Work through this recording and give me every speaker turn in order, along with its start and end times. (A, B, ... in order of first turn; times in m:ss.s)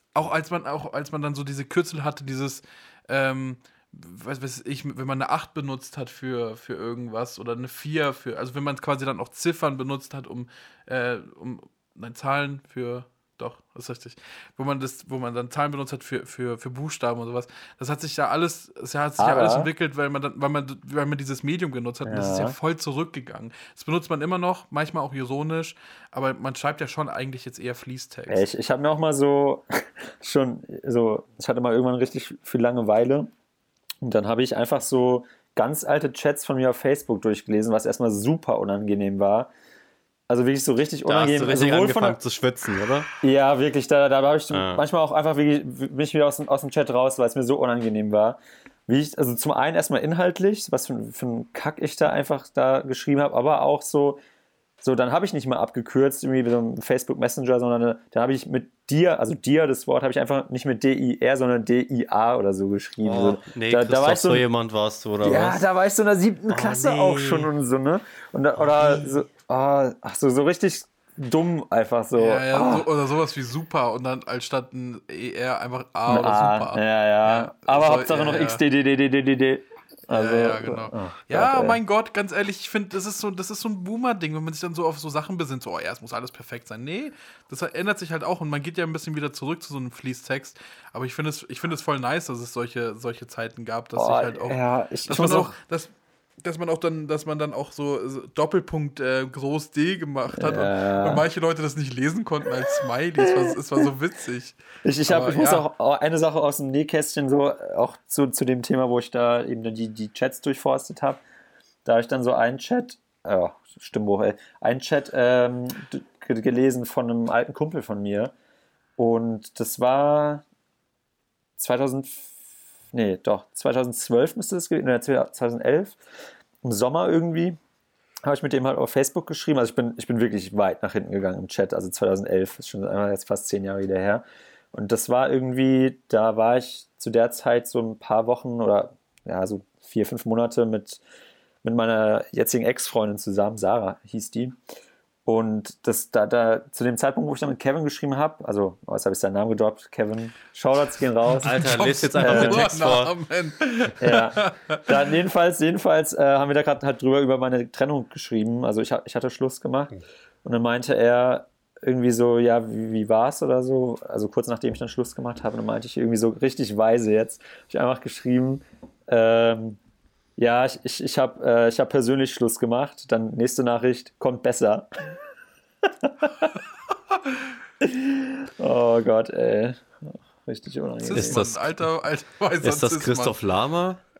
0:00.1-0:28.5 A
0:19.2-0:19.7 B
0:22.0-0:22.6 B
0:28.3-0:33.3 B
0:34.0-0:39.5 B
0:40.3-0:42.2 B
0:41.1-0:43.1 C
0:43.2-0:54.2 B
0:44.5-0:44.8 C
0:54.8-1:04.4 B
1:03.0-1:05.6 C
1:05.2-1:12.9 B
1:06.5-1:07.4 C
1:08.7-1:09.2 A
1:12.1-1:18.6 A
1:16.1-1:21.8 B
1:20.1-1:45.6 A
1:33.9-1:35.5 B
1:40.3-1:41.2 B
1:44.8-1:51.2 B
1:51.8-1:58.3 B
1:59.0-2:00.4 B
2:01.6-2:02.3 B
2:02.9-2:06.0 B
2:06.6-2:07.6 B
2:08.2-2:21.0 B
2:21.6-2:24.6 B
2:25.2-2:31.7 B
2:31.3-2:34.8 A
2:31.4-2:33.1 C
2:32.2-2:32.7 B
2:34.0-2:49.8 B
2:50.4-2:54.9 B
2:56.0-2:56.3 B
2:57.1-2:57.4 A
2:57.8-3:01.4 B
3:01.0-3:03.3 A
3:01.1-3:01.8 C
3:02.6-3:04.0 C